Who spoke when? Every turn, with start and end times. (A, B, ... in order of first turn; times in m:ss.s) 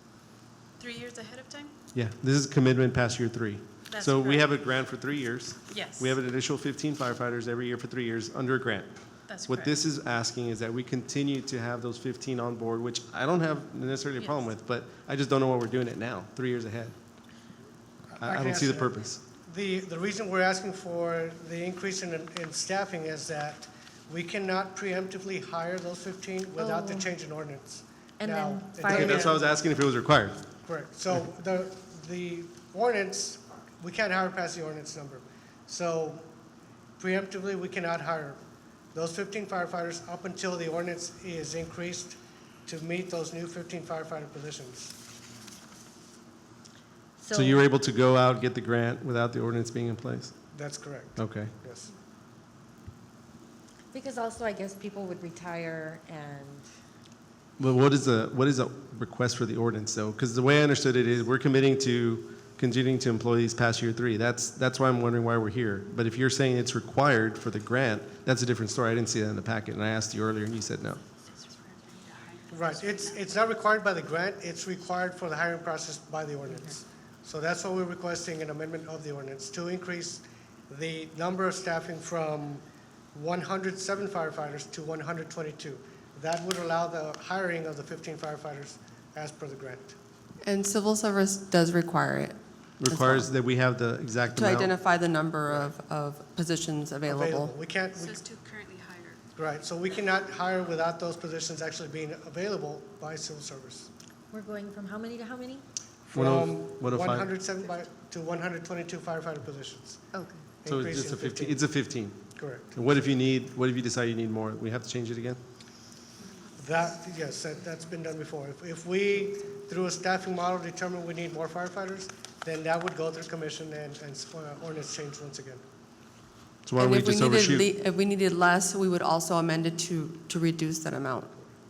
0:00.8-0:01.7 A
0:01.9-0:17.0 B
0:03.9-0:04.6 A
0:05.7-0:06.2 A
0:09.3-0:09.8 A
0:14.2-0:14.5 A
0:18.1-0:29.6 C
0:18.2-0:19.2 B
0:26.6-0:27.1 D
0:28.2-0:29.2 D
0:28.8-0:30.4 B
0:30.6-0:36.2 C
0:37.0-0:38.4 C
0:38.9-0:44.9 C
0:47.2-0:47.6 D
0:47.3-0:50.3 B
0:50.5-0:51.9 C
0:51.2-0:51.5 B
0:53.9-0:56.6 D
0:57.6-1:11.0 B
1:11.3-1:13.2 A
1:12.5-1:30.0 C
1:30.4-1:33.3 E
1:32.8-1:34.8 B
1:34.3-1:37.5 E
1:37.1-1:38.2 C
1:37.9-1:39.2 A
1:39.3-1:43.9 C
1:44.3-1:45.6 D
1:46.1-1:50.0 C
1:46.1-1:47.3 B
1:50.1-1:50.4 D
1:50.6-1:51.6 C
1:50.7-1:55.4 B
1:52.4-1:52.8 C
1:56.6-2:05.6 C
2:06.6-2:07.7 B
2:06.8-2:11.3 E